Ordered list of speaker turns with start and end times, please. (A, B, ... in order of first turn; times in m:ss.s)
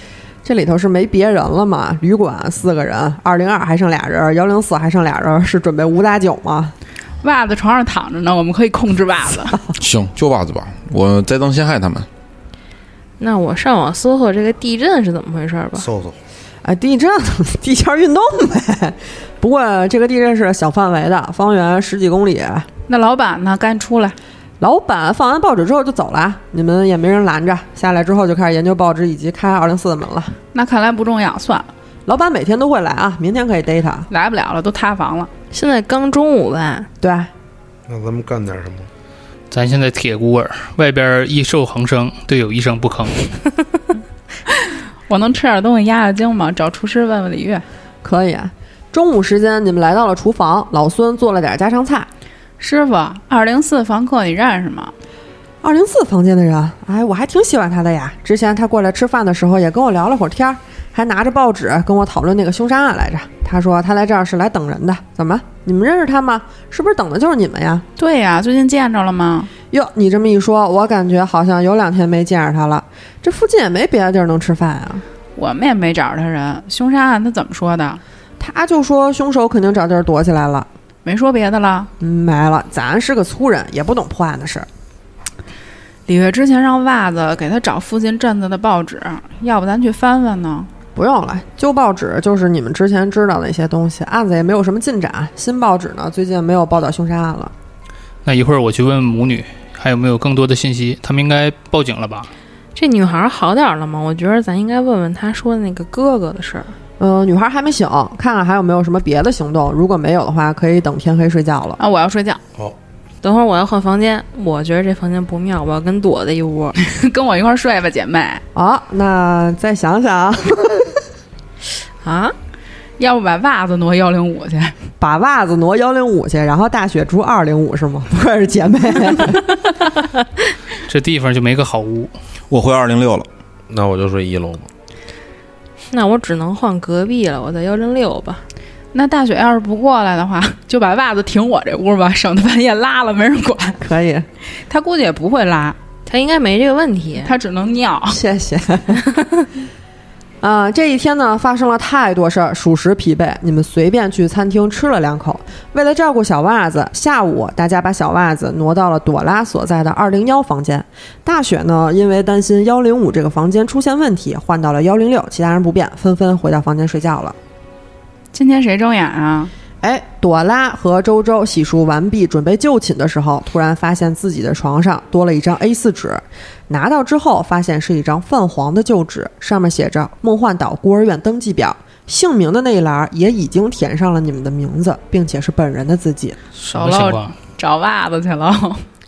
0:00.4-0:06.7 A
0:07.2-0:09.6 B
0:09.8-0:12.1 C
0:13.2-0:15.9 D
0:15.8-0:16.2 E
0:16.6-0:22.7 A
0:22.9-0:24.2 B
0:24.6-0:30.4 A
0:30.5-0:31.7 B
0:32.1-0:34.1 A
0:34.1-0:35.3 B
0:35.5-0:36.9 D
0:37.0-0:37.3 A
0:37.9-0:38.9 E
0:39.5-0:43.3 F
0:44.5-0:47.6 B
0:48.0-0:52.1 A
0:52.6-0:54.9 B
0:55.6-1:07.8 A
1:08.0-1:09.5 B
1:09.7-1:15.0 A
1:15.4-1:18.0 B
1:18.4-1:20.7 A
1:21.0-1:21.9 B
1:22.0-1:24.7 A
1:26.1-1:30.7 B
1:30.9-1:37.5 A
1:38.2-1:42.3 F
1:42.8-1:46.7 D
1:47.0-1:51.8 A
1:51.8-1:52.4 B
1:53.2-1:56.8 D
1:56.8-1:58.4 B
1:58.5-2:01.0 A
2:02.0-2:02.3 D
2:03.0-2:04.8 B
2:05.0-2:09.5 A
2:10.9-2:12.1 F
2:12.5-2:13.3 C
2:13.7-2:14.7 E
2:15.9-2:18.4 D
2:18.9-2:23.8 B
2:23.8-2:24.3 A
2:24.5-2:25.8 B
2:26.0-2:27.3 D
2:27.2-2:28.2 B
2:28.1-2:29.0 A
2:30.4-2:47.4 A
2:48.3-2:49.5 B
2:49.8-3:06.4 A
3:06.6-3:07.3 F
3:06.7-3:08.8 B